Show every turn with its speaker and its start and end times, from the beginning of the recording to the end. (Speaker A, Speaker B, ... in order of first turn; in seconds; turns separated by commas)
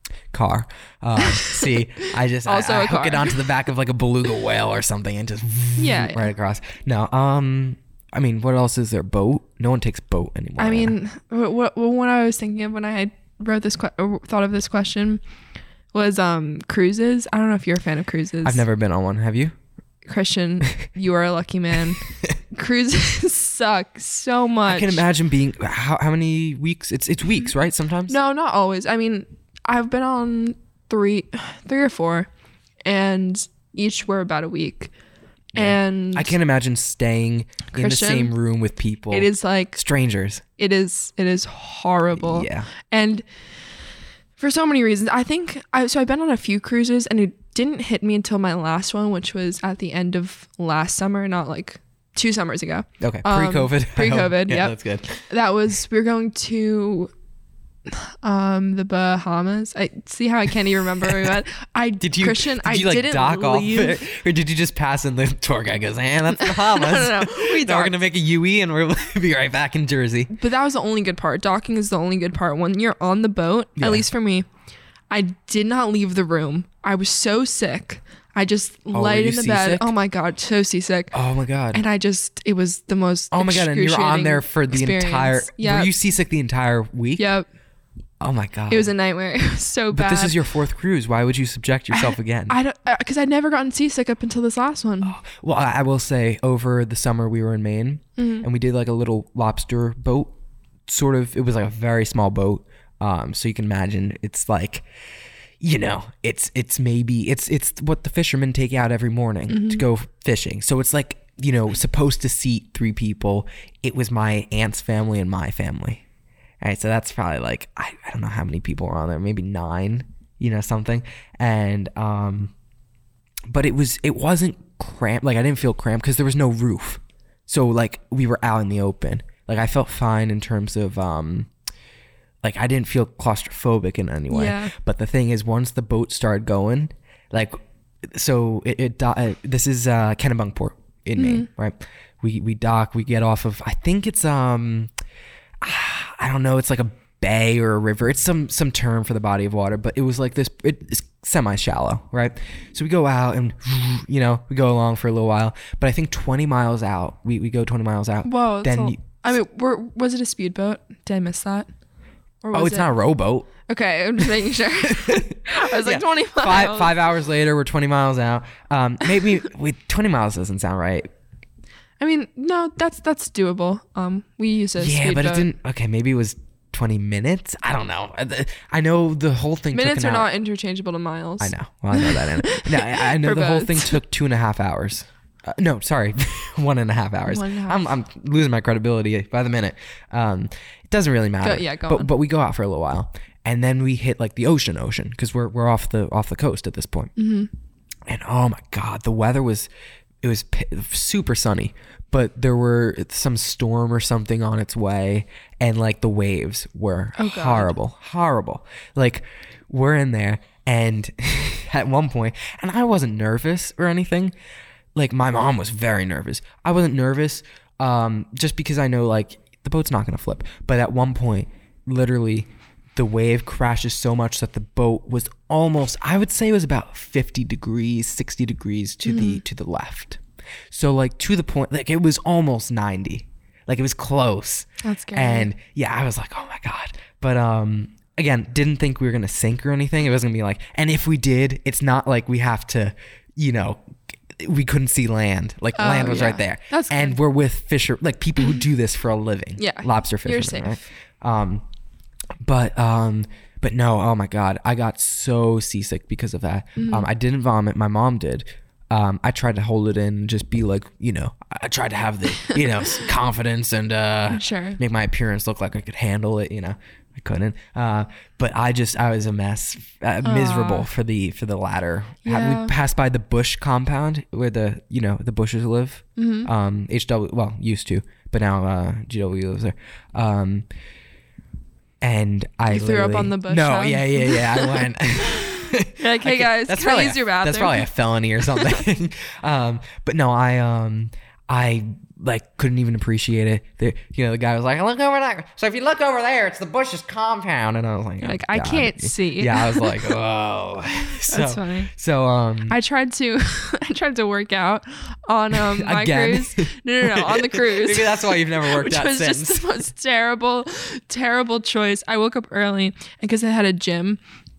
Speaker A: 0.3-11.0, Speaker B: 1.2-1.8, Speaker B: 2.5-3.5, Speaker B: 5.8-6.3, Speaker B: 10.6-15.2, Speaker B: 15.9-18.6, Speaker A: 18.4-19.5, Speaker B: 20.1-25.0, Speaker A: 24.7-28.1, Speaker B: 28.1-32.3, Speaker B: 32.9-34.9, Speaker A: 35.5-40.5, Speaker B: 35.6-36.3, Speaker B: 37.7-38.3, Speaker B: 39.1-39.8, Speaker B: 40.6-43.2, Speaker A: 42.2-42.7, Speaker B: 44.4-54.7, Speaker A: 53.0-55.3, Speaker B: 55.3-57.1, Speaker B: 57.9-64.0, Speaker A: 62.0-70.3, Speaker B: 66.3-68.0, Speaker B: 70.3-74.5, Speaker A: 73.8-74.0, Speaker B: 75.1-81.1, Speaker A: 78.9-79.9, Speaker A: 81.1-81.8, Speaker B: 81.7-85.9, Speaker A: 83.3-87.3, Speaker B: 87.2-87.5, Speaker A: 88.2-88.9, Speaker B: 88.7-90.3, Speaker A: 89.9-92.6, Speaker B: 91.9-95.2, Speaker A: 95.0-100.3, Speaker B: 98.2-98.5, Speaker A: 100.9-104.8, Speaker A: 105.6-116.0, Speaker B: 109.5-109.8, Speaker A: 116.6-122.5, Speaker A: 123.5-131.5, Speaker A: 132.4-144.9, Speaker B: 134.3-134.7, Speaker B: 141.2-141.5, Speaker A: 145.6-159.2, Speaker B: 158.2-161.7, Speaker B: 162.4-162.9, Speaker A: 162.5-163.5, Speaker B: 163.7-166.9, Speaker A: 164.9-171.1, Speaker B: 172.0-175.5, Speaker A: 174.8-180.3, Speaker B: 179.7-184.0, Speaker A: 181.4-197.1, Speaker B: 187.3-188.0, Speaker B: 191.4-192.1, Speaker B: 197.2-197.5, Speaker A: 198.1-199.7, Speaker A: 200.2-214.3, Speaker B: 207.2-207.8, Speaker A: 214.9-251.6, Speaker B: 229.1-229.4, Speaker B: 234.8-235.5, Speaker B: 245.8-247.2, Speaker B: 249.6-250.8, Speaker A: 252.4-280.7, Speaker B: 256.8-257.1, Speaker B: 264.3-264.8, Speaker B: 270.2-270.9, Speaker B: 272.2-272.7, Speaker B: 276.2-276.5, Speaker A: 282.0-302.8, Speaker B: 282.7-287.9, Speaker B: 288.5-288.8, Speaker B: 298.2-300.1, Speaker B: 301.2-301.9, Speaker B: 302.7-314.2, Speaker A: 305.5-309.7